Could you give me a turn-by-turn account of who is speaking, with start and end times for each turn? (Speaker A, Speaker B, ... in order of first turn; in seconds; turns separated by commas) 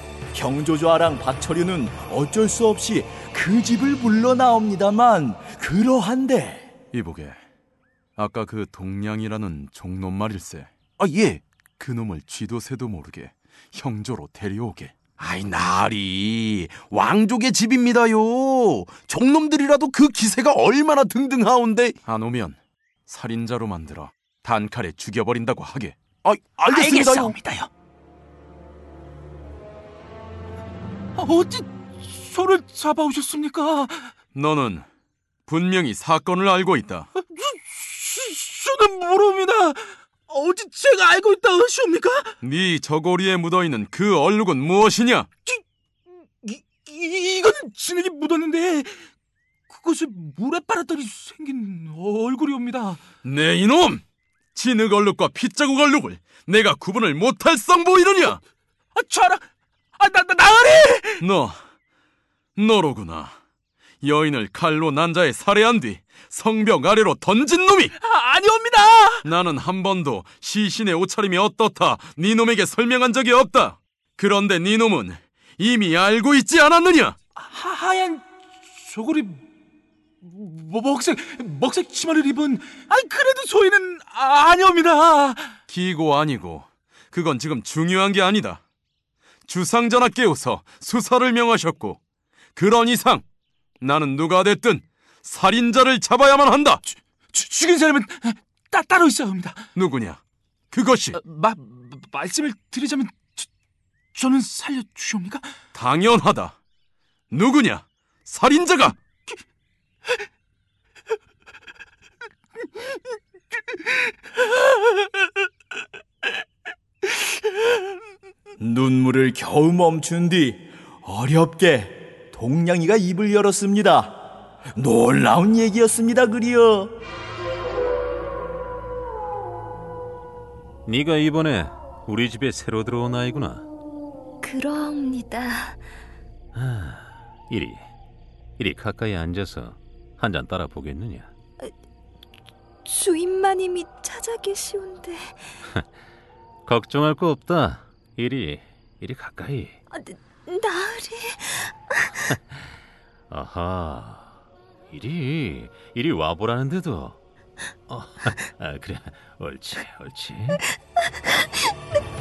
Speaker A: 0.3-6.7, Speaker B: 6.9-7.4, Speaker B: 8.2-11.0, Speaker C: 11.0-11.4, Speaker B: 11.8-15.6, Speaker C: 15.3-22.0, Speaker B: 22.0-26.3, Speaker C: 26.2-27.3, Speaker D: 26.7-27.7, Speaker D: 31.2-34.1, Speaker B: 34.3-34.9, Speaker B: 35.5-37.1, Speaker D: 37.4-42.3, Speaker B: 42.4-45.3, Speaker D: 46.4-49.0, Speaker D: 49.7-53.0, Speaker B: 53.2-54.0, Speaker B: 54.5-58.4, Speaker D: 59.0-59.4, Speaker D: 60.0-61.2, Speaker B: 61.2-61.6, Speaker B: 62.6-63.4, Speaker B: 64.0-67.9, Speaker D: 68.0-69.3, Speaker B: 69.2-77.2, Speaker D: 77.4-78.2, Speaker D: 78.8-79.4, Speaker D: 80.2-85.5, Speaker B: 85.7-88.6, Speaker B: 89.5-92.0, Speaker B: 92.5-93.2, Speaker B: 93.8-96.8, Speaker D: 97.3-99.7, Speaker B: 99.8-101.2, Speaker D: 101.2-103.5, Speaker D: 104.2-105.5, Speaker B: 105.7-106.6, Speaker B: 107.3-109.0, Speaker D: 114.5-115.0, Speaker A: 118.6-124.2, Speaker A: 124.8-126.9, Speaker E: 130.9-133.7, Speaker F: 134.4-135.8, Speaker E: 136.5-137.8, Speaker E: 138.6-141.3, Speaker F: 142.8-145.5, Speaker E: 146.7-149.8, Speaker F: 149.9-152.1, Speaker E: 153.3-154.4, Speaker E: 154.9-157.2, Speaker E: 157.9-160.6